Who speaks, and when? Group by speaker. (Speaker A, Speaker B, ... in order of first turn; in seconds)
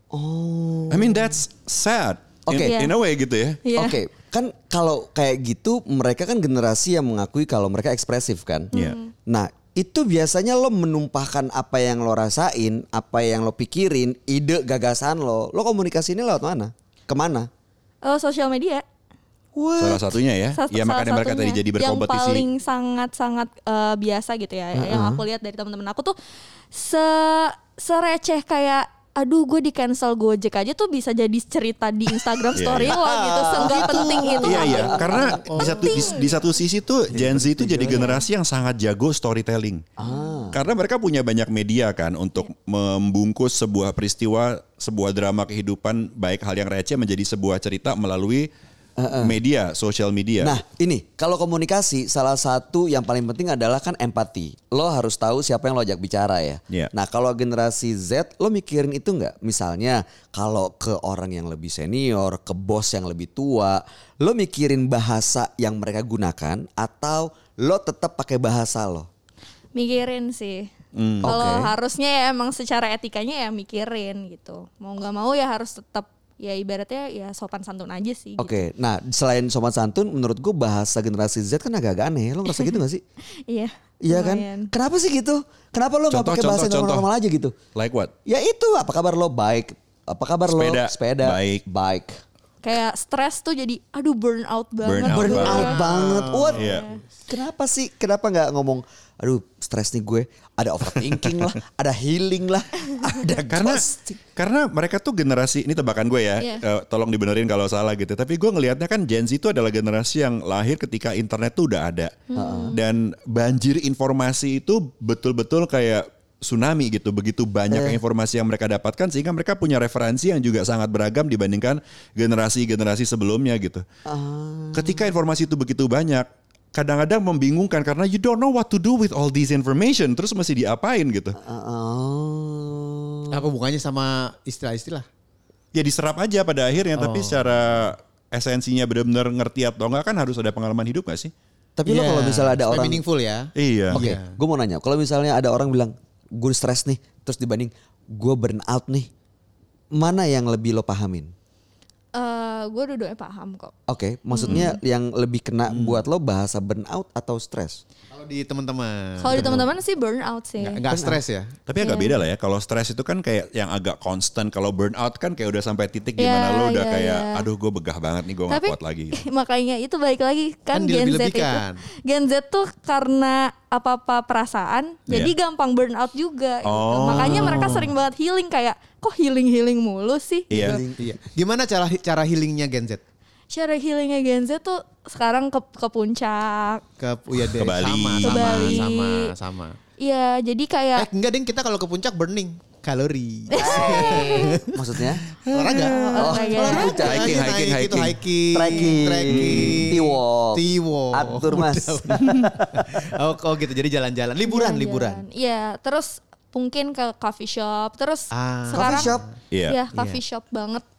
Speaker A: 0.1-1.4, 2.5-2.8, 3.7-8.7, 9.3-17.5, 19.6-20.2, 24.7-25.2, 32.8-35.5, 37.8-38.2, 40.0-40.6, 49.0-49.4, 50.4-69.1, 71.2-71.7, 78.4-83.0, 84.0-87.5, 88.2-92.2, 95.1-96.7, 97.3-104.2, 112.3-112.8, 117.7-118.0, 124.0-125.1, 131.4-133.4, 141.8-143.0, 143.9-149.1, 149.9-151.3, 153.9-157.8, 159.3-159.6, 160.9-161.2, 180.5-181.1, 193.6-195.2, 196.2-197.5, 198.5-202.7, 208.7-209.2
Speaker B: 0.9-3.6, 19.8-22.5, 32.5-33.0, 34.4-39.8, 40.5-48.5, 49.2-50.6, 70.9-71.3, 86.1-87.1, 87.7-88.1, 90.5-91.6, 94.8-95.7, 96.5-96.9, 103.5-103.8, 104.3-112.1, 112.7-123.8, 124.7-131.4, 135.7-141.3, 143.6-144.0, 154.4-154.7, 155.7-156.0, 161.7-169.2, 175.1-175.3, 176.7-177.8, 180.5-180.8, 187.5-188.9, 195.5-196.1, 196.9-198.2, 199.2-199.8, 209.5-209.8
Speaker C: 2.6-2.9, 3.6-4.0, 8.7-9.1, 18.0-18.8, 20.5-26.1, 26.7-36.4, 69.7-70.7, 71.2-78.6, 83.5-84.7, 92.6-95.8, 96.6-97.0, 112.3-112.8, 152.1-153.7, 154.3-154.8, 159.2-160.8, 161.8-162.2, 166.2-167.4, 168.5-180.5, 183.5-186.8, 188.2-189.3, 190.0-191.1, 193.5-194.5, 195.9-197.1, 204.4-210.8
Speaker D: 33.6-36.3, 37.2-38.1, 95.2-96.7, 133.3-135.1, 136.9-137.6, 141.9-144.3, 158.1-159.6, 160.6-161.5, 170.7-171.8, 177.1-177.9, 180.5-183.0, 187.0-189.8, 190.9-195.0, 195.5-205.2, 208.3-209.2, 209.9-210.2